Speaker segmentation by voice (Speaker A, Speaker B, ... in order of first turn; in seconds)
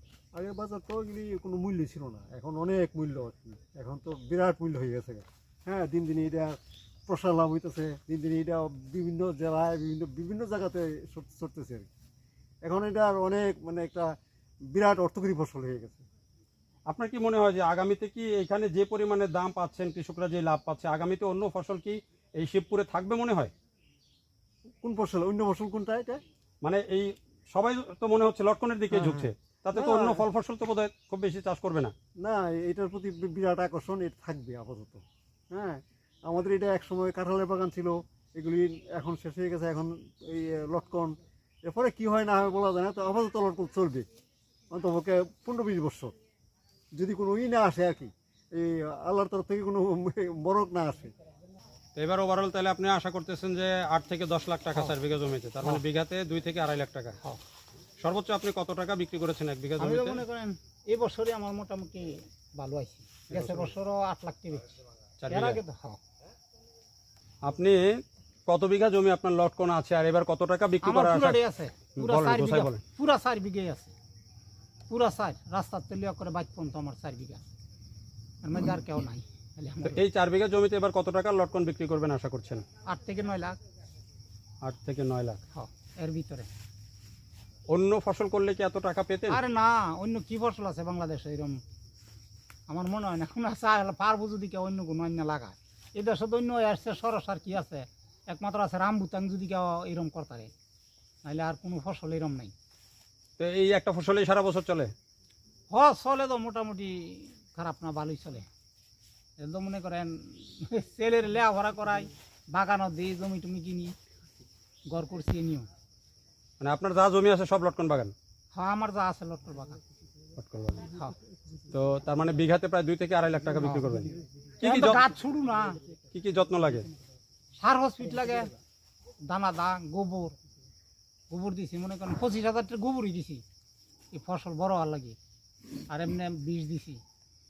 Speaker A: 0.3-11.9, 12.6-14.1, 14.7-16.0, 24.8-26.2, 28.9-30.2, 32.2-44.1, 44.7-46.1, 47.0-51.1
Speaker B: 16.9-23.5, 26.6-31.9, 52.0-57.2, 58.0-60.2, 63.3-63.7, 65.2-65.6, 67.4-67.8, 68.5-71.4, 72.0-72.8, 79.8-82.7, 84.6-85.4, 87.7-89.4, 103.4-104.9, 116.6-118.2, 120.4-120.9, 121.7-124.1, 124.6-125.1, 126.1-126.9
Speaker C: 59.8-66.0, 70.8-73.9, 74.9-77.5, 78.4-80.0, 82.9-83.6, 85.5-86.5, 89.3-91.6, 92.7-100.5, 101.2-102.5, 105.7-108.5, 109.4-114.0, 114.9-115.7, 118.5-119.8, 120.9-121.2, 123.6-124.0, 124.6-125.8, 127.6-128.5, 129.3-130.3, 131.3-133.4, 134.1-135.2, 135.9-137.0